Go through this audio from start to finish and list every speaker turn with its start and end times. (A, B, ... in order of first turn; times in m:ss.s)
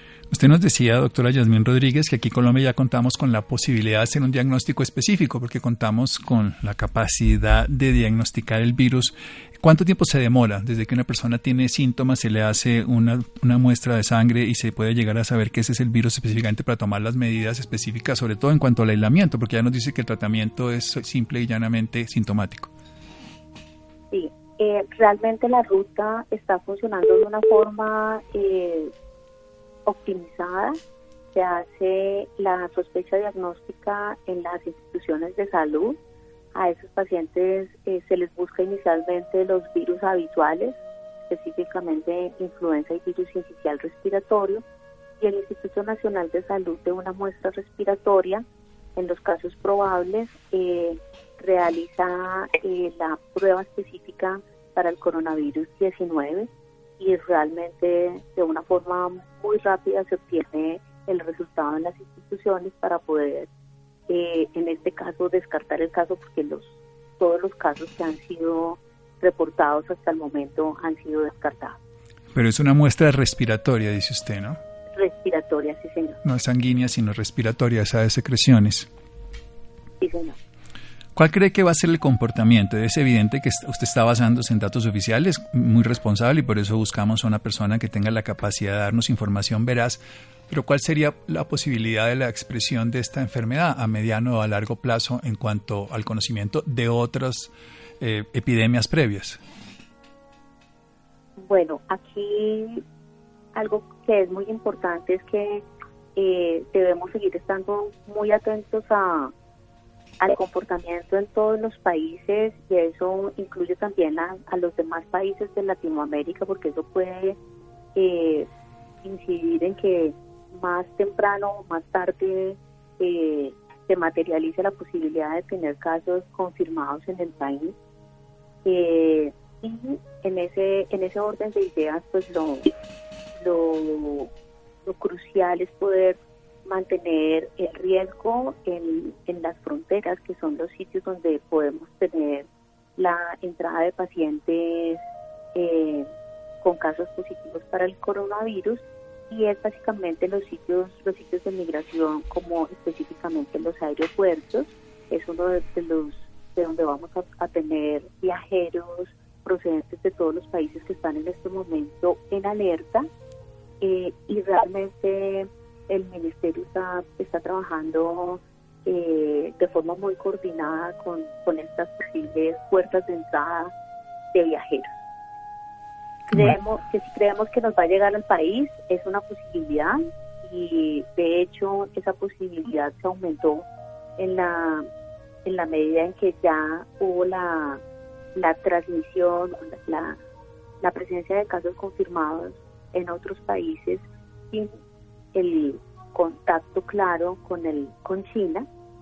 0:00.3-0:22.7 A
0:24.1-0:28.9 B
0:29.8-0:30.8 B
0:31.3-0:36.0 B
0:36.5-0:40.8 B
0:41.3-0:44.6 B
0:45.2-0:48.4 B
0:49.0-1:03.5 B
1:04.1-1:11.8 B
1:12.3-1:14.6 A
1:14.9-1:16.2 B
1:16.2-1:18.9 A
1:20.0-1:20.4 B
1:21.2-1:39.4 A
1:41.4-1:42.8 B
1:43.5-1:45.6 B
1:46.2-1:49.3 B
1:50.2-1:57.4 B
1:57.9-1:58.5 B
1:59.0-2:07.7 B
2:08.6-2:12.7 B
2:13.4-2:14.3 B
2:14.8-2:22.4 B
2:23.0-2:25.0 B
2:25.5-2:26.1 B
2:26.6-2:43.1 B
2:43.8-2:53.7 B
2:54.3-2:55.0 B
2:56.3-3:03.7 B
3:04.2-3:04.9 B
3:05.4-3:07.8 B
3:08.3-3:10.2 B
3:10.8-3:14.7 B
3:15.3-3:18.7 B